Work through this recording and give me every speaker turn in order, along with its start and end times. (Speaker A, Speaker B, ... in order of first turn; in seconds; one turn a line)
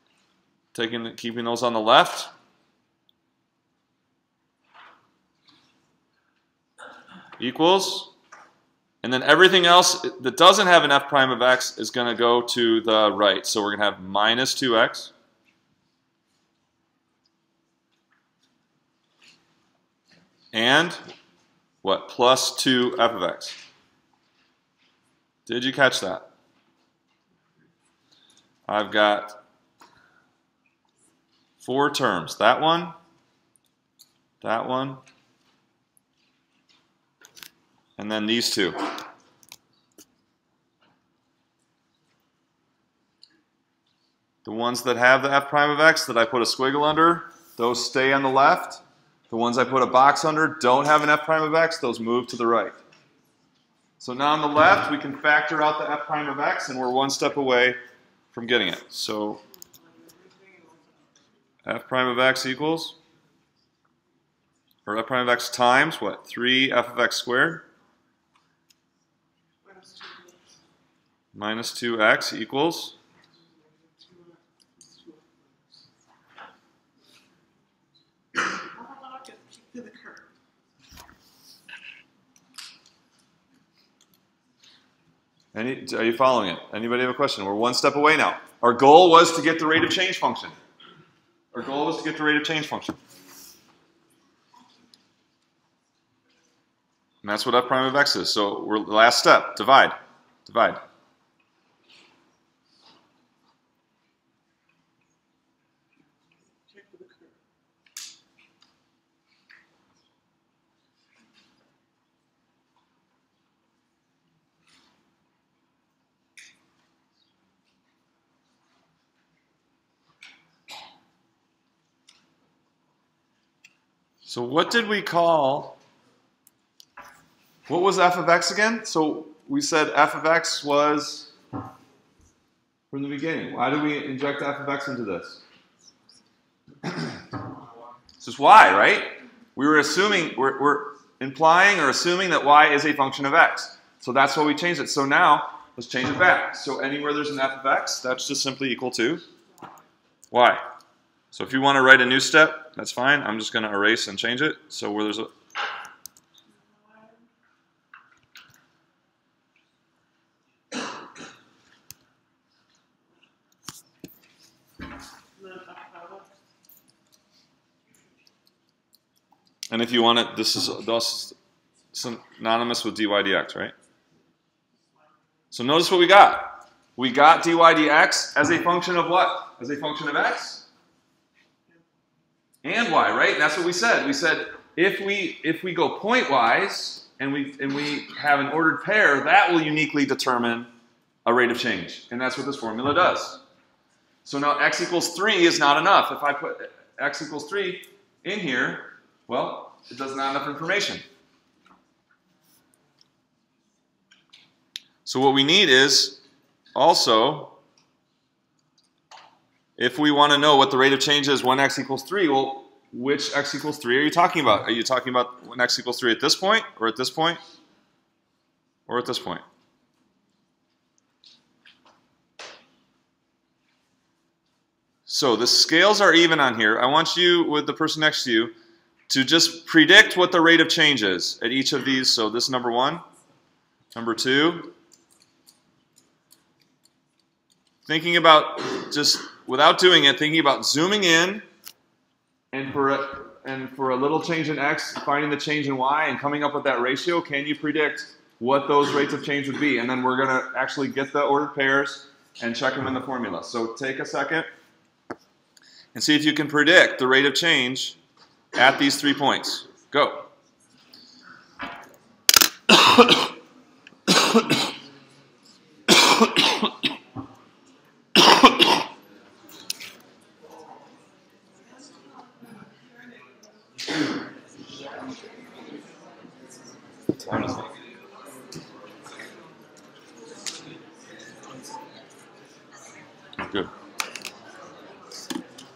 Speaker A: 0.7-2.3
Speaker A: 7.4-8.1
Speaker A: 9.0-15.1
Speaker A: 20.5-21.0
Speaker A: 21.8-23.6
Speaker A: 25.4-26.3
Speaker A: 28.7-29.4
Speaker A: 31.6-33.0
Speaker A: 34.4-35.0
Speaker A: 38.0-38.8
Speaker A: 44.4-52.8
Speaker A: 54.0-57.8
Speaker A: 58.3-59.4
Speaker B: 59.5-61.2
Speaker A: 61.6-63.0
Speaker A: 64.8-67.7
Speaker B: 69.6-70.5
Speaker A: 71.3-72.9
Speaker B: 73.4-75.8
Speaker B: 78.3-80.3
Speaker A: 85.5-90.5
Speaker A: 91.5-93.0
Speaker A: 97.2-100.8
Speaker B: 106.6-107.4
Speaker A: 124.2-125.8
Speaker A: 127.7-131.3
Speaker A: 132.9-135.4
Speaker A: 138.2-149.2
Speaker A: 150.3-150.6
Speaker A: 151.3-155.3
Speaker B: 156.5-157.2
Speaker B: 165.3-166.3
Speaker A: 169.7-171.3
Speaker A: 171.9-173.7
Speaker B: 174.7-175.2
Speaker A: 175.5-180.6
Speaker A: 182.6-190.7
Speaker A: 191.2-193.4
Speaker A: 194.2-201.0
Speaker A: 205.1-206.2
Speaker A: 206.7-207.6
Speaker A: 209.8-217.4
Speaker A: 218.9-219.4
Speaker A: 225.1-228.5
Speaker A: 229.1-233.0
Speaker A: 233.9-234.7
Speaker A: 237.8-241.4
Speaker A: 242.5-254.5
Speaker A: 255.9-257.9
Speaker A: 258.5-260.3
Speaker A: 277.1-277.7
Speaker A: 283.4-283.7